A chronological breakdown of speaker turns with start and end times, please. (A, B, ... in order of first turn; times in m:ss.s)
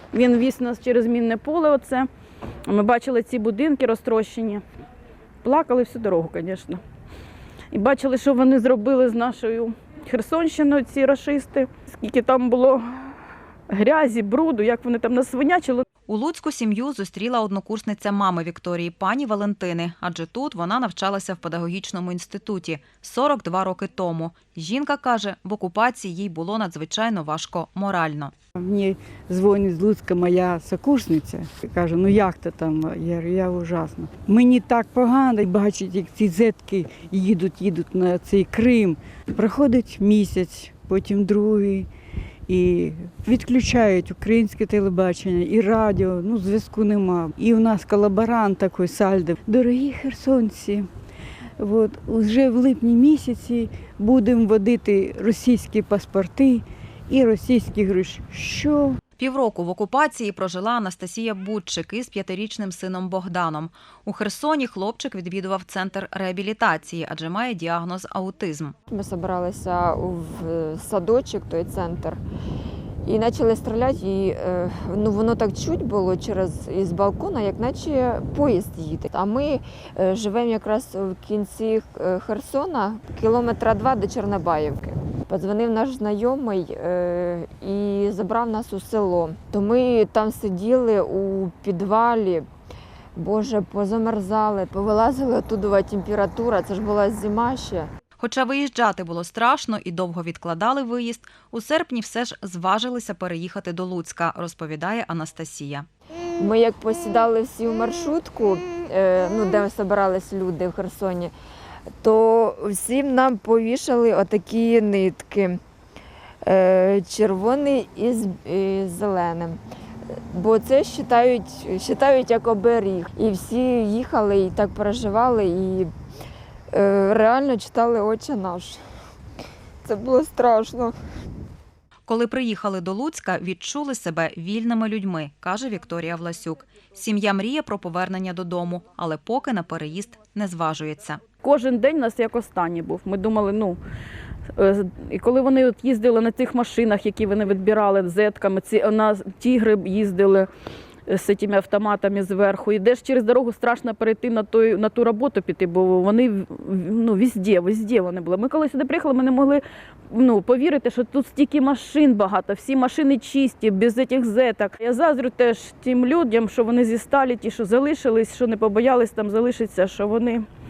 0:00.1-0:02.1 A
0:02.7-0:04.6 A
0:05.4-0:06.8 A
0:07.7-0:12.8 A
0:13.7-0:15.8 A
0:16.1-0:28.3 B
0:28.6-0:41.9 C
0:42.5-0:50.9 C
0:51.6-0:59.0 C
0:59.2-1:08.8 B
1:08.9-1:12.2 D
1:13.0-1:32.4 D
1:33.2-1:37.9 D
1:38.2-1:45.9 B
1:46.4-1:51.3 D
1:52.0-1:55.6 D
1:56.4-1:59.6 D
2:00.1-2:05.9 D
2:06.7-2:08.8 D
2:09.8-2:10.9 D
2:12.1-2:21.2 B
2:21.4-2:23.8 A
2:24.6-2:30.5 A
2:31.1-2:50.5 A